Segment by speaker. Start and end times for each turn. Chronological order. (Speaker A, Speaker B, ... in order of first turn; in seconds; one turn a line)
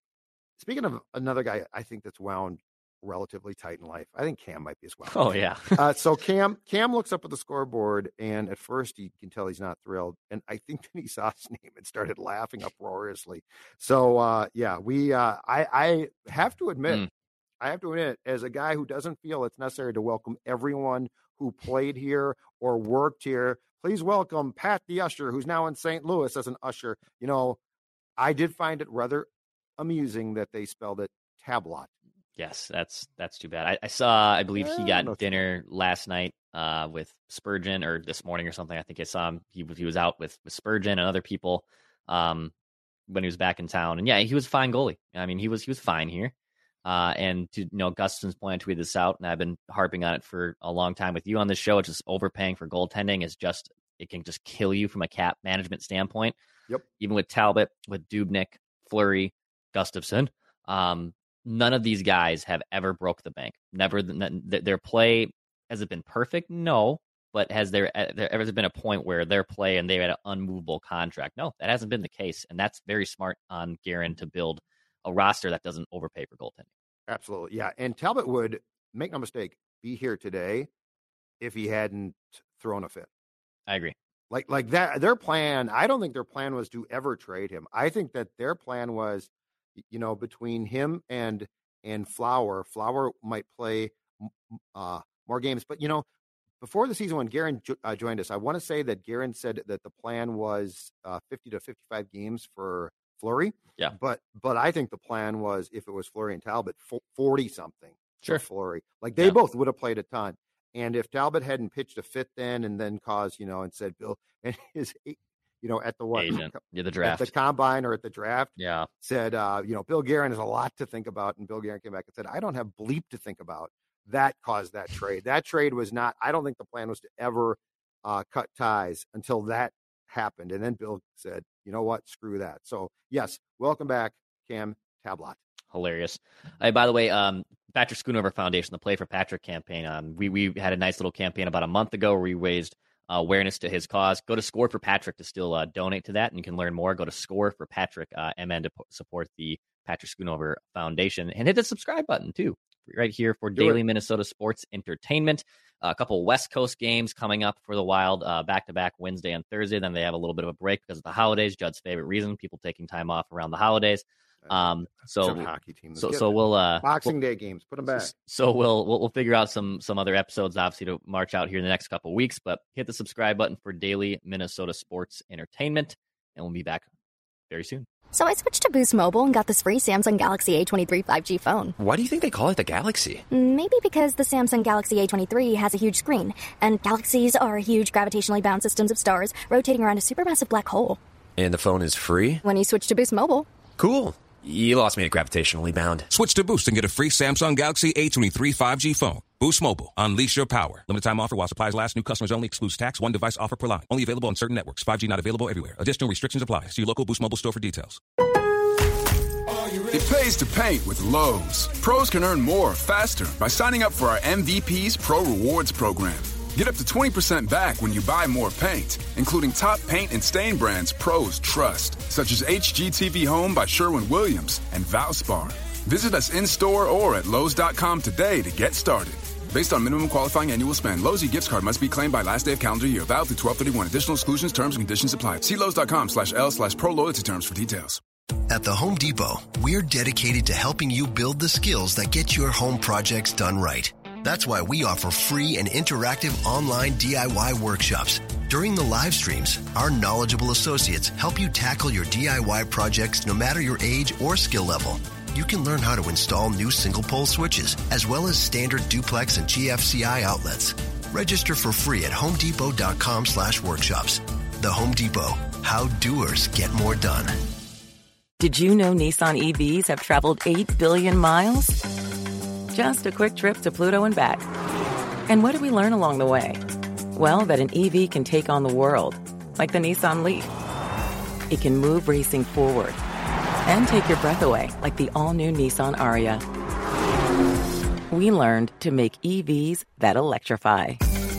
Speaker A: 0.6-17.1
Speaker B: 5.1-5.8
Speaker A: 17.6-27.6
Speaker A: 28.2-31.9
Speaker B: 32.4-42.5
Speaker A: 34.6-35.4
Speaker B: 43.1-46.3
Speaker B: 46.9-56.4
Speaker B: 57.0-76.7
Speaker A: 77.1-80.7
Speaker A: 81.4-83.1
Speaker B: 83.7-84.0
Speaker A: 84.3-96.1
Speaker A: 96.6-135.4
Speaker B: 116.1-117.3
Speaker B: 118.6-118.9
Speaker B: 135.7-167.1
Speaker A: 153.6-153.8
Speaker A: 164.4-168.1
Speaker B: 167.9-176.9
Speaker B: 177.5-177.9
Speaker C: 178.1-181.8
Speaker D: 181.8-183.2
Speaker C: 183.3-191.0
Speaker D: 191.4-192.4
Speaker C: 192.4-193.5
Speaker D: 193.8-196.1
Speaker E: 196.1-208.0
Speaker F: 209.9-238.0
Speaker G: 238.5-267.4
Speaker H: 268.4-271.8
Speaker H: 272.7-274.5
Speaker H: 275.3-276.6
Speaker H: 277.1-280.5
Speaker H: 281.5-283.0
Speaker H: 283.7-286.4
Speaker H: 288.1-291.0